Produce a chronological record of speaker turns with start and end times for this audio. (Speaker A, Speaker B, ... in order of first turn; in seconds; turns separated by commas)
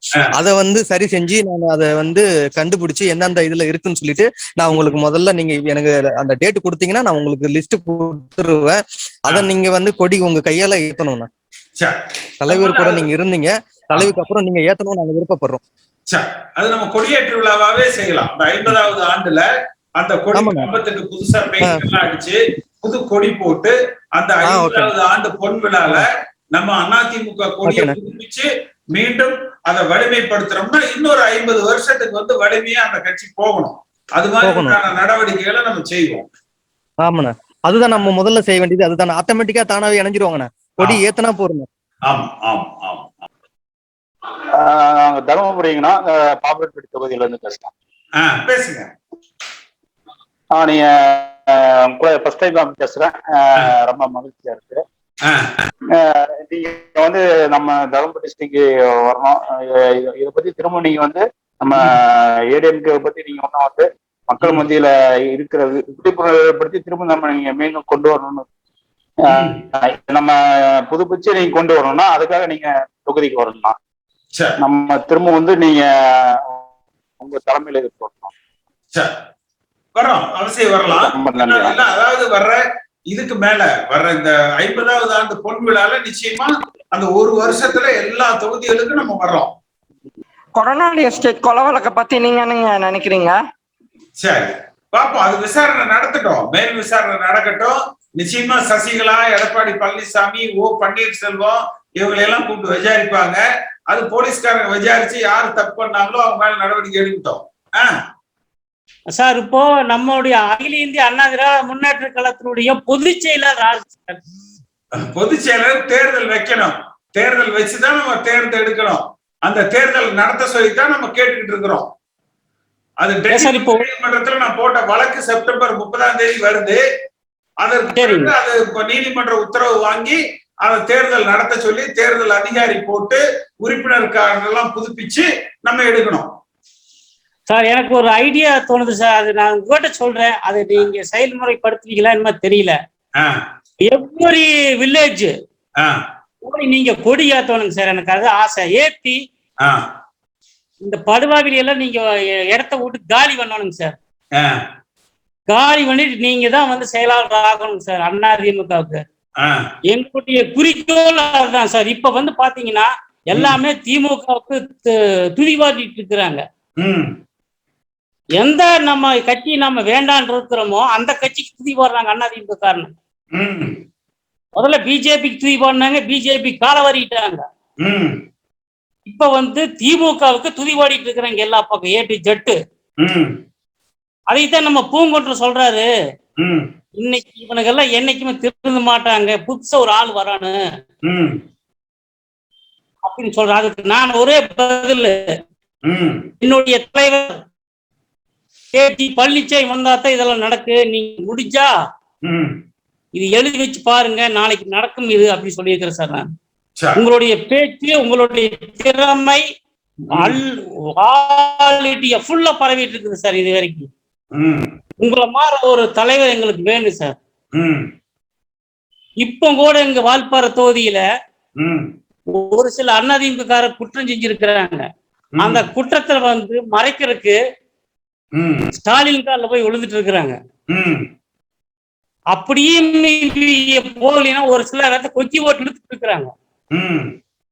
Speaker A: 0.3-11.3, Speaker B: 11.8-13.1, Speaker A: 12.4-15.6, Speaker B: 16.1-36.3, Speaker A: 20.3-20.7, Speaker A: 21.4-21.9, Speaker A: 24.4-24.9, Speaker A: 27.6-28.0, Speaker A: 34.4-34.9, Speaker A: 37.0-41.7, Speaker B: 42.1-43.2, Speaker C: 44.6-47.7, Speaker B: 48.2-48.9, Speaker C: 50.5-54.8, Speaker B: 55.2-55.5, Speaker C: 55.9-68.5, Speaker B: 64.4-64.7, Speaker C: 69.2-73.8, Speaker B: 69.3-69.6, Speaker B: 74.3-74.6, Speaker C: 74.6-75.9, Speaker C: 77.2-78.3, Speaker B: 79.9-89.5, Speaker C: 80.9-81.7, Speaker D: 90.6-93.4, Speaker B: 94.2-107.9, Speaker E: 109.1-114.2, Speaker B: 115.1-121.9, Speaker B: 123.0-126.8, Speaker E: 123.3-123.9, Speaker B: 127.6-136.3, Speaker E: 127.9-128.3, Speaker E: 137.5-142.8, Speaker E: 143.9-145.3, Speaker E: 146.4-149.2, Speaker E: 150.8-154.0, Speaker E: 155.5-159.0, Speaker E: 159.9-166.4, Speaker B: 163.3-163.6, Speaker B: 166.8-167.1, Speaker E: 168.4-172.9, Speaker B: 173.3-173.8, Speaker E: 174.6-177.4, Speaker B: 177.8-178.2, Speaker E: 179.1-182.6, Speaker B: 183.0-183.4, Speaker E: 184.3-185.9, Speaker B: 186.4-186.7, Speaker E: 187.0-190.6, Speaker B: 191.1-191.4, Speaker E: 193.1-195.2, Speaker B: 195.8-196.3, Speaker E: 196.4-197.4, Speaker E: 198.7-201.7, Speaker B: 202.2-202.5, Speaker E: 203.2-206.2, Speaker B: 206.8-207.0, Speaker E: 206.9-209.4, Speaker B: 210.1-210.4, Speaker E: 210.2-210.5, Speaker E: 211.0-213.9, Speaker B: 214.3-214.7, Speaker E: 215.0-217.2, Speaker B: 217.6-217.9, Speaker E: 219.2-221.0, Speaker B: 221.6-221.9, Speaker E: 222.3-224.8, Speaker B: 225.4-225.7, Speaker E: 225.4-227.4, Speaker B: 228.3-228.7, Speaker E: 228.8-230.3, Speaker B: 230.7-231.1, Speaker E: 232.3-236.3, Speaker B: 236.7-237.1